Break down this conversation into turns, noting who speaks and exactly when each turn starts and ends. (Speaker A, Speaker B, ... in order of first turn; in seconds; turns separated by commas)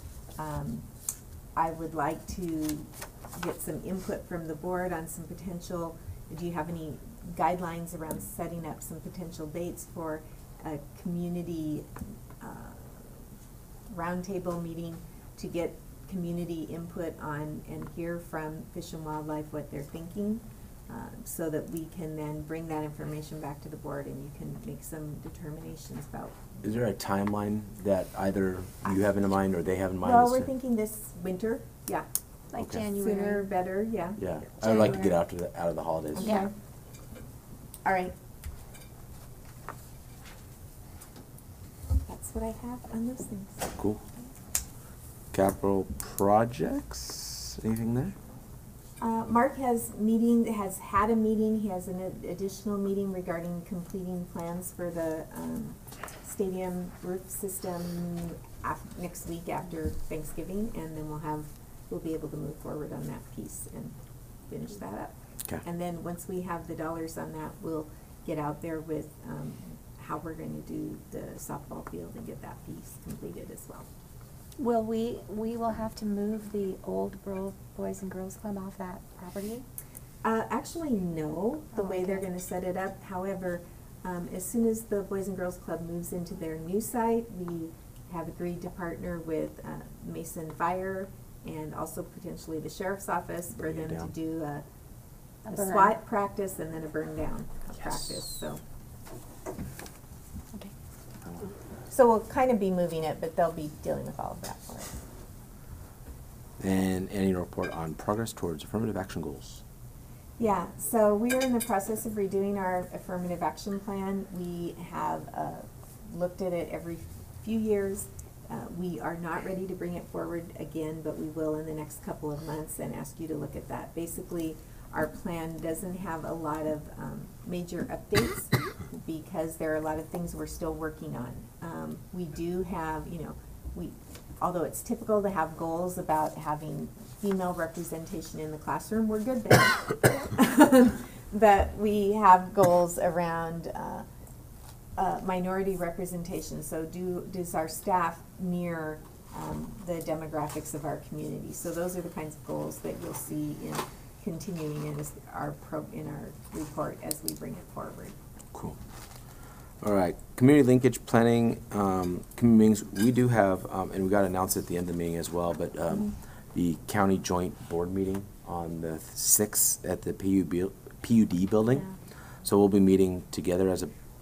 Speaker A: 0.4-0.8, Speaker A: 1.6-11.8, Speaker A: 12.4-13.1, Speaker A: 13.9-26.4, Speaker B: 26.6-30.5, Speaker A: 30.0-32.1, Speaker C: 32.5-33.5, Speaker B: 32.5-32.8, Speaker A: 33.0-34.2, Speaker B: 34.2-36.4, Speaker C: 34.6-35.2, Speaker A: 36.1-36.5, Speaker C: 36.2-36.5, Speaker A: 37.8-38.1, Speaker A: 42.0-43.7, Speaker B: 43.7-44.0, Speaker B: 45.3-48.1, Speaker A: 49.0-63.9, Speaker A: 64.5-73.9, Speaker C: 74.6-79.6, Speaker A: 80.2-94.6, Speaker C: 81.7-82.2, Speaker B: 93.6-94.1, Speaker C: 95.5-96.0, Speaker A: 95.5-98.6, Speaker A: 101.9-104.9, Speaker B: 106.6-109.6, Speaker A: 110.4-144.1, Speaker A: 145.0-158.2, Speaker B: 159.8-171.8, Speaker B: 172.4-173.9